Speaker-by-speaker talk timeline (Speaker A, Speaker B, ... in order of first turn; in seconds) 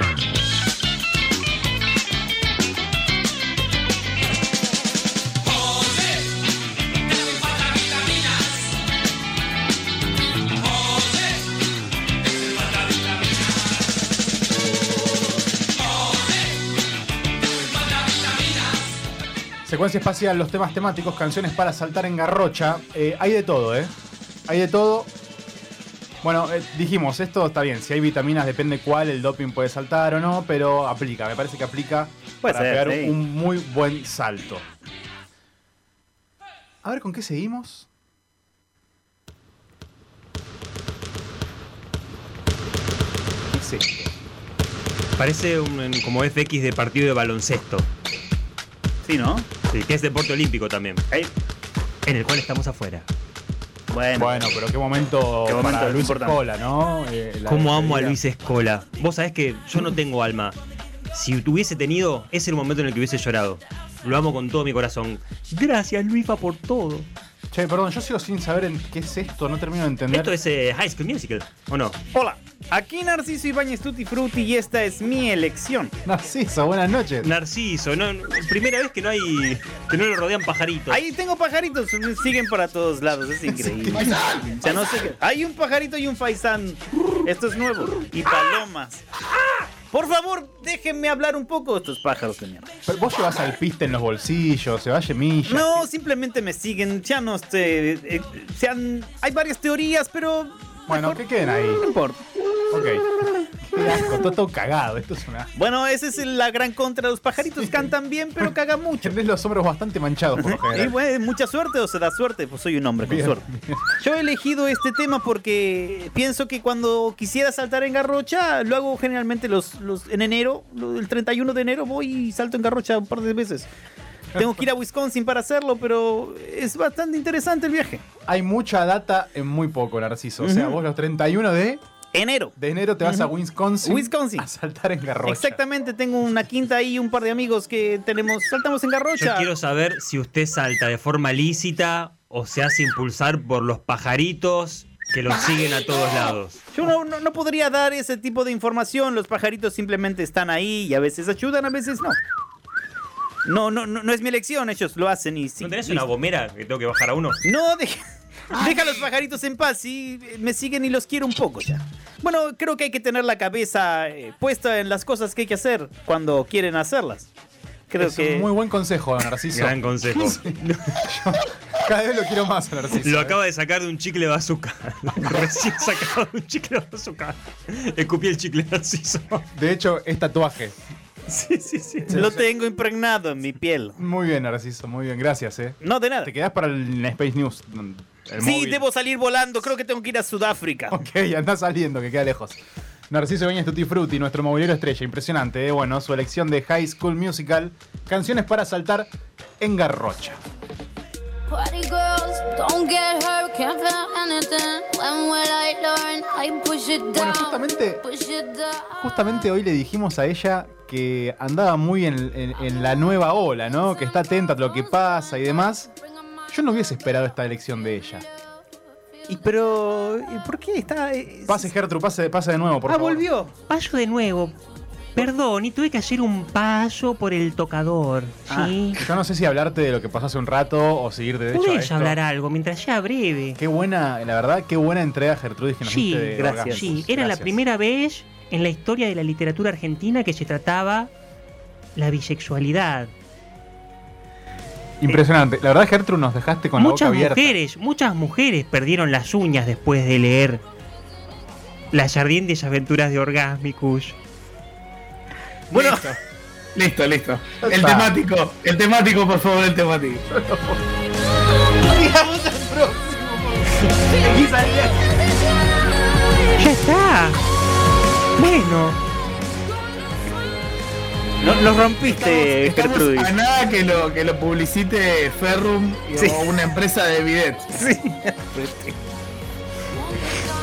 Speaker A: 19.6-23.9, 24.5-25.1, 26.2-34.7, 36.8-37.9, 43.5-44.1, 54.1-58.2, 67.5-70.3, 76.0-77.3, 83.5-84.2, 92.9-95.9, 100.9-101.8, 102.7-103.1, 103.6-105.5, 107.5-108.4, 109.0-111.0, 113.1-113.9, 124.3-124.6, 128.2-131.8, 132.6-135.6, 168.0-173.4, 179.5-180.8, 182.1-182.4, 184.0-188.8, 190.9-200.4, 207.1-208.0, 209.0-215.9, 216.5-218.2, 221.5-223.3, 229.0-232.2, 233.6-237.6, 245.0-247.6, 257.6-258.1, 260.4-260.8
Speaker B: 32.4-33.2, 49.0-49.5, 53.9-54.5, 55.5-56.4, 72.1-75.9, 80.9-89.0, 89.9-92.7, 95.5-102.2, 105.5-109.2, 110.4-113.4, 114.0-123.7, 124.3-128.0, 130.4-130.8, 132.1-134.5, 135.2-139.5, 146.7-152.2, 153.5-156.1, 157.4-167.3, 167.9-168.5, 181.3-184.0, 185.8-186.3, 188.4-191.0, 219.3-221.7, 222.8-223.5, 228.5-229.0, 236.4-236.9, 255.7-256.1, 261.8-265.0, 271.4-273.4, 276.1-276.7, 277.7-278.9
Speaker C: 45.2-47.9, 49.7-51.0, 52.0-53.1, 57.4-60.6, 61.1-67.1, 70.1-72.0, 77.2-81.0, 139.1-146.9, 155.6-157.4, 169.5-171.0, 173.0-179.4
Speaker D: 83.9-84.8, 158.5-159.1, 256.8-260.2, 272.0-277.8
Speaker E: 201.5-208.9
Speaker F: 223.7-224.6, 225.2-229.0, 231.5-233.6, 235.8-241.1, 241.9-243.1, 246.8-250.6, 251.9-254.2, 266.6-267.4, 268.4-269.0